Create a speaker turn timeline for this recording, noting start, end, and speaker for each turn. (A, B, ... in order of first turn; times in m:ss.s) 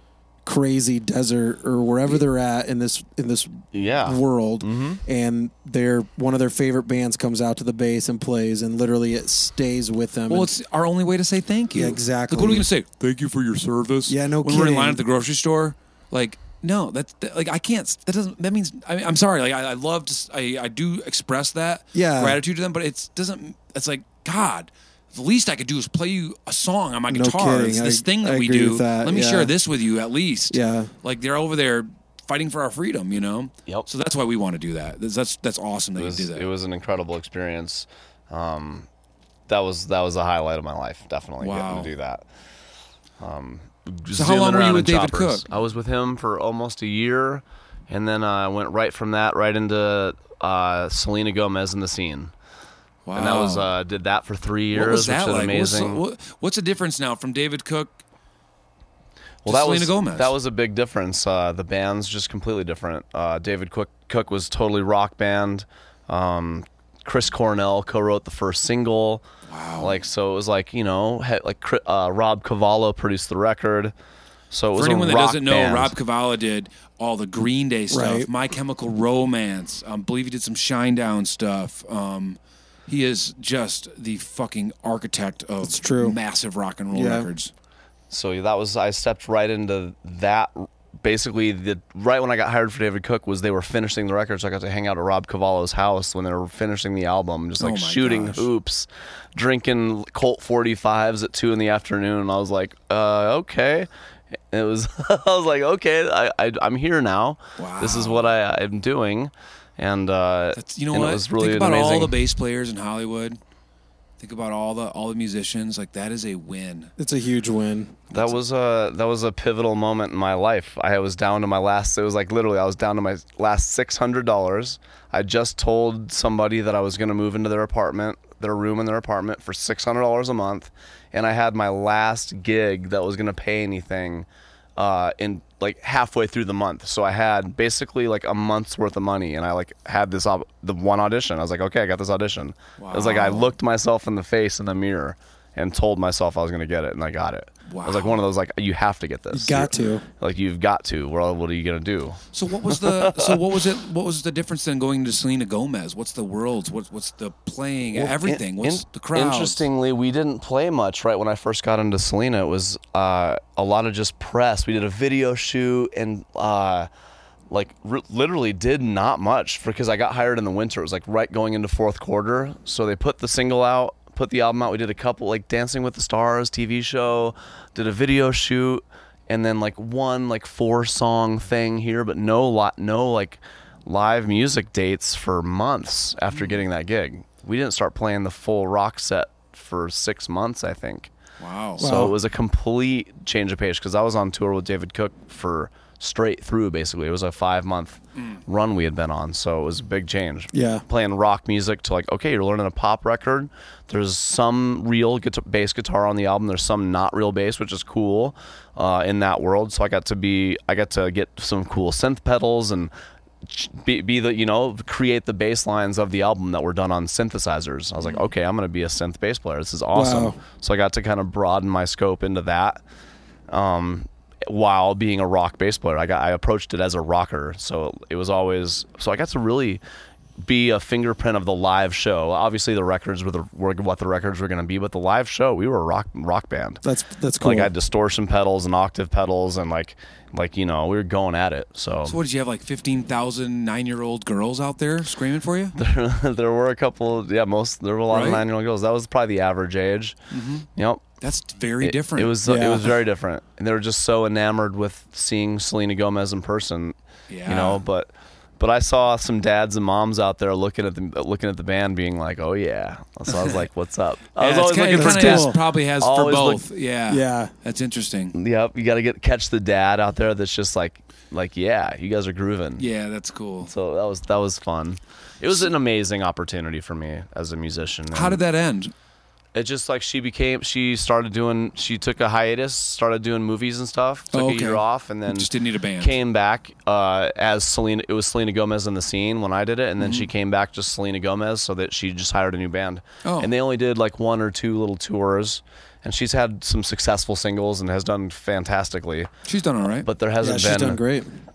0:00.4-0:10.5 A
0:03.7-0:05.0 B
0:10.3-0:36.5 C
0:11.7-0:12.7 A
0:14.1-0:15.0 A
0:21.9-0:22.4 A
0:27.1-0:29.5 A
0:30.5-0:30.9 A
0:36.0-0:38.9 B
0:39.5-0:42.2 B
0:41.4-0:41.9 C
0:43.2-0:52.3 B
0:44.2-0:45.4 C
0:53.0-0:53.7 C
0:53.1-0:56.0 B
0:54.7-0:58.0 C
0:59.4-1:09.2 B
0:59.4-1:00.3 C
1:09.5-1:10.0 C
1:09.8-1:13.9 B
1:14.5-1:15.9 B
1:14.8-1:27.5 C
1:17.9-1:18.3 A
1:25.6-1:26.2 A
1:26.9-1:27.3 A
1:28.1-1:43.9 B
1:37.6-1:38.5 C
1:44.5-1:52.2 B
1:47.6-1:48.3 C
1:50.6-1:53.4 C
1:54.2-1:56.9 C
1:57.0-1:58.0 A
1:58.1-2:33.4 B
2:22.8-2:23.5 C
2:27.7-2:28.2 C
2:29.3-2:30.0 A
2:32.3-2:39.6 C
2:37.9-2:46.9 B
2:47.5-3:11.1 B
3:06.3-3:06.6 C
3:11.4-3:11.9 C
3:11.8-3:12.1 A
3:11.8-3:32.9 B
3:20.5-3:20.8 A
3:33.4-3:42.8 B
3:38.0-3:38.3 C
3:39.9-3:40.4 A
3:43.5-3:49.8 B
3:50.4-3:56.8 B
3:56.8-3:57.7 A
3:57.4-4:02.2 B
4:02.0-4:05.8 C
4:05.8-4:10.2 B
4:08.1-4:08.4 C
4:10.3-4:10.7 C
4:10.8-4:11.0 B
4:11.2-4:12.4 C
4:11.8-4:26.6 B
4:12.4-4:12.9 A
4:17.3-4:17.8 C
4:23.3-4:23.6 C
4:24.4-4:28.3 C
4:24.9-4:25.6 A
4:27.1-4:27.5 A
4:28.3-4:32.8 B
4:32.8-4:33.7 C
4:33.6-4:38.4 B
4:38.1-4:38.9 C
4:39.5-4:59.3 B
4:44.3-4:46.2 C
4:50.0-4:50.3 C
4:53.2-4:53.5 C
4:59.4-5:00.1 C
5:00.0-5:01.0 B
5:00.4-5:01.3 A